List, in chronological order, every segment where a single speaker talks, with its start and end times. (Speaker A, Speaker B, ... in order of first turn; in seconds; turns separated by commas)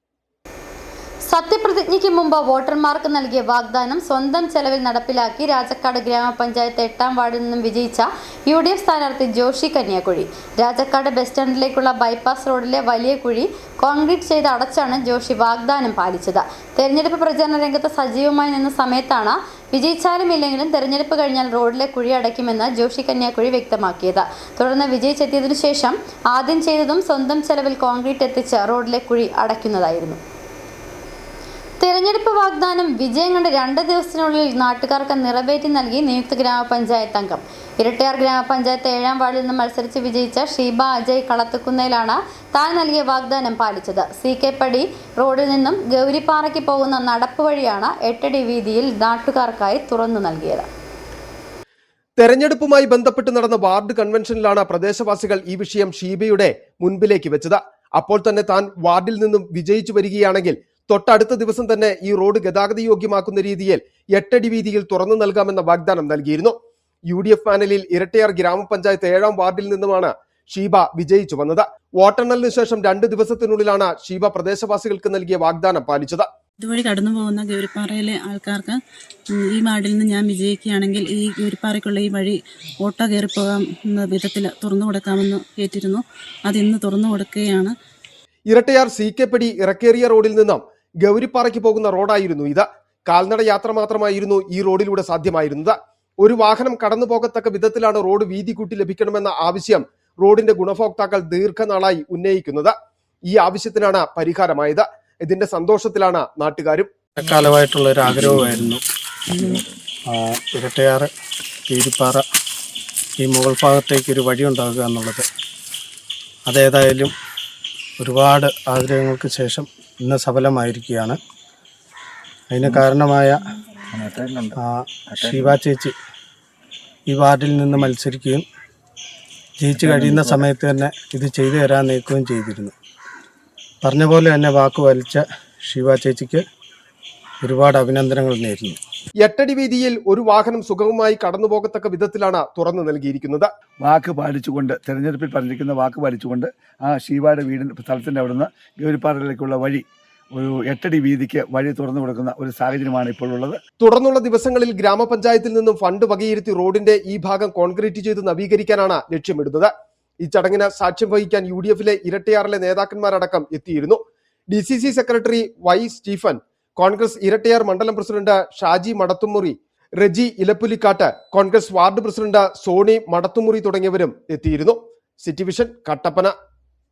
Speaker A: 1.3-30.2, Speaker A: 31.8-50.7, Speaker B: 52.2-66.6, Speaker B: 67.1-76.3, Speaker C: 76.6-78.8, Speaker C: 79.3-87.7, Speaker B: 88.5-102.7, Speaker B: 103.3-106.9, Speaker D: 107.2-108.8, Speaker D: 109.3-111.1, Speaker D: 111.7-112.2, Speaker D: 113.2-115.2, Speaker D: 116.5-117.1, Speaker D: 118.0-121.2, Speaker D: 122.5-123.4, Speaker E: 123.9-124.6, Speaker D: 124.6-125.9, Speaker E: 125.1-125.6, Speaker D: 127.1-128.4, Speaker D: 129.6-132.7, Speaker E: 129.8-130.4, Speaker D: 133.8-136.4, Speaker D: 137.4-138.8, Speaker B: 139.2-143.5, Speaker E: 143.8-149.8, Speaker E: 150.3-153.6, Speaker B: 153.8-176.3